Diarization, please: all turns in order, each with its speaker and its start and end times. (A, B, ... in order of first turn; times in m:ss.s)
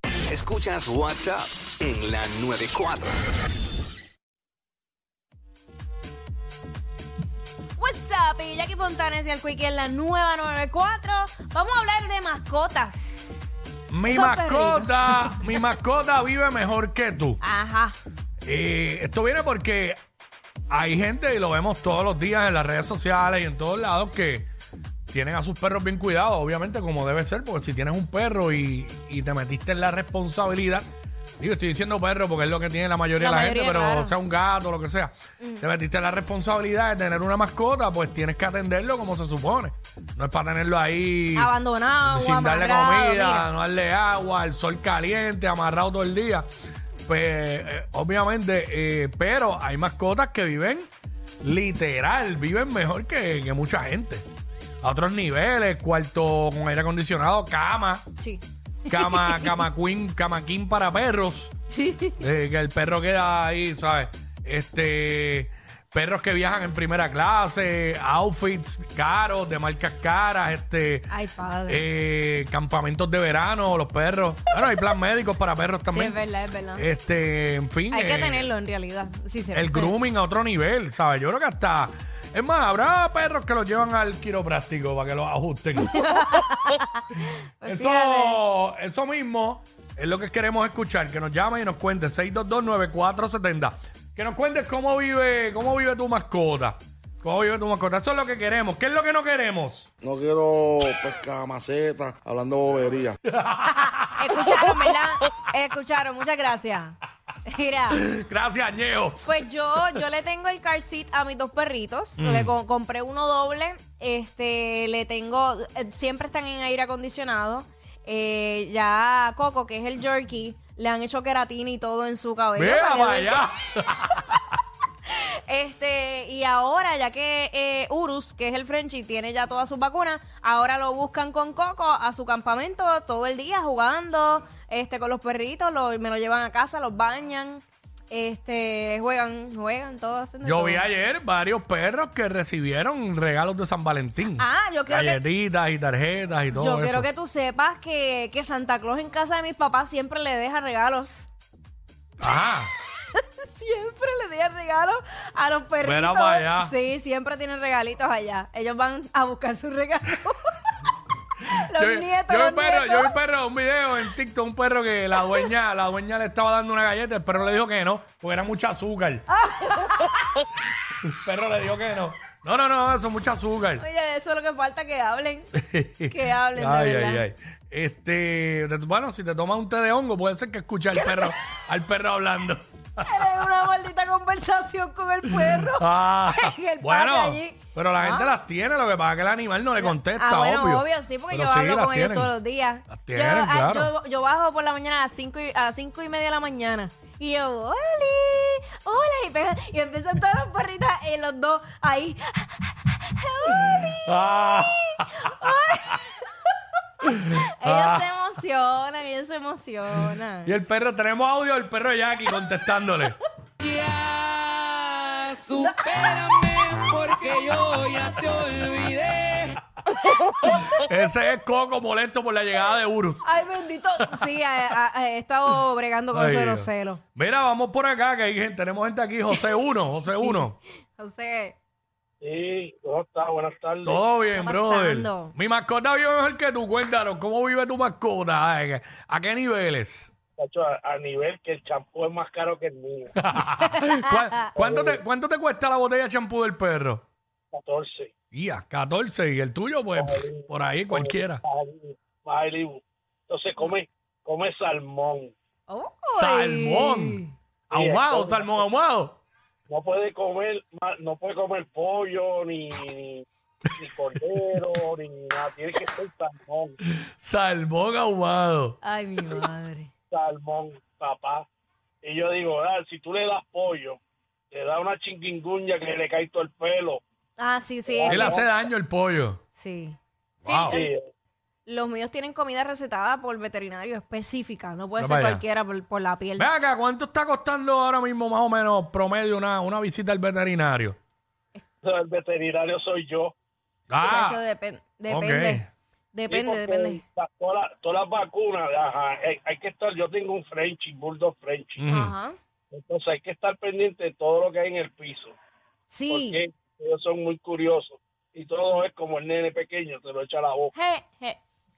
0:00.3-0:03.2 A
0:07.8-0:13.5 B
0:13.9-0:17.4 C
0:14.1-0:15.6 B
0:17.4-0:17.9 B
0:18.4-0:20.0 C
0:20.7-0:24.5 C
0:25.1-0:30.9 C
0:31.4-0:41.5 C
0:33.2-0:34.1 B
0:35.4-0:35.7 B
0:41.3-0:43.5 B
0:42.0-0:46.5 C
0:47.1-0:50.9 C
0:51.4-0:54.2 C
0:54.8-0:58.0 C
0:58.2-0:59.6 B
0:58.9-1:01.5 C
1:01.7-1:02.2 B
1:02.2-1:11.1 C
1:11.1-1:11.8 B
1:11.7-1:16.2 C
1:15.9-1:16.8 B
1:16.8-1:18.5 C
1:17.9-1:19.9 B
1:19.5-1:26.0 C
1:25.9-1:28.4 B
1:27.6-1:39.9 C
1:40.0-1:43.2 D
1:43.3-1:44.5 C
1:43.7-1:48.0 B
1:47.9-1:49.4 C
1:49.2-2:03.5 B
1:52.2-1:52.5 C
2:02.5-2:04.4 C
2:05.1-2:20.8 B
2:20.4-2:27.1 C
2:24.4-2:25.2 B
2:26.5-2:31.3 B
2:32.2-2:32.7 C
2:33.1-2:40.6 B
2:35.8-2:36.7 C
2:41.5-2:43.1 B
2:41.7-2:49.2 C
2:45.2-2:45.5 B
2:49.3-2:50.4 B
2:51.0-2:53.8 C
2:53.8-2:55.5 B
2:55.5-3:03.3 C
2:56.1-2:57.2 B
3:00.9-3:01.3 B
3:03.0-3:08.4 B
3:05.3-3:12.3 C
3:09.8-3:26.0 B
3:12.9-3:13.9 C
3:23.5-3:25.8 C
3:27.0-3:30.5 B
3:27.1-3:28.1 C
3:30.4-3:33.2 C
3:33.6-3:39.6 E
3:35.7-3:36.1 B
3:37.1-3:37.4 B
3:40.5-3:43.2 C
3:43.2-3:47.0 B
3:46.1-3:50.6 C
3:50.2-3:51.6 B
3:52.2-3:54.0 F
3:53.8-4:00.1 C
3:54.3-3:55.3 B
4:00.4-4:03.1 F
4:03.2-4:07.0 C
4:03.7-4:04.3 B
4:04.6-4:05.0 F
4:07.5-4:08.1 F
4:08.3-4:11.4 C
4:10.0-4:15.3 F
4:15.7-4:17.3 B
4:16.1-4:19.2 C
4:17.7-4:18.7 F
4:19.7-4:23.2 F
4:23.8-4:26.8 F
4:26.8-4:28.8 C
4:28.8-4:29.9 B
4:30.1-4:31.4 F
4:32.0-4:34.0 F
4:34.5-4:37.0 F
4:37.4-4:38.4 B
4:37.9-4:38.5 F
4:38.1-4:39.4 C
4:39.5-4:40.9 B
4:40.4-4:40.8 C
4:40.7-4:41.0 F
4:41.6-4:46.5 B
4:45.0-4:45.4 C
4:46.4-4:51.0 C
4:51.8-4:53.3 F
4:53.9-4:54.4 C
4:54.0-4:57.0 B
4:55.1-4:55.7 C
4:56.3-5:01.8 F
5:01.8-5:02.1 C
5:01.9-5:02.4 B
5:02.7-5:05.3 F
5:05.9-5:06.4 B
5:06.1-5:10.7 F
5:10.7-5:11.4 B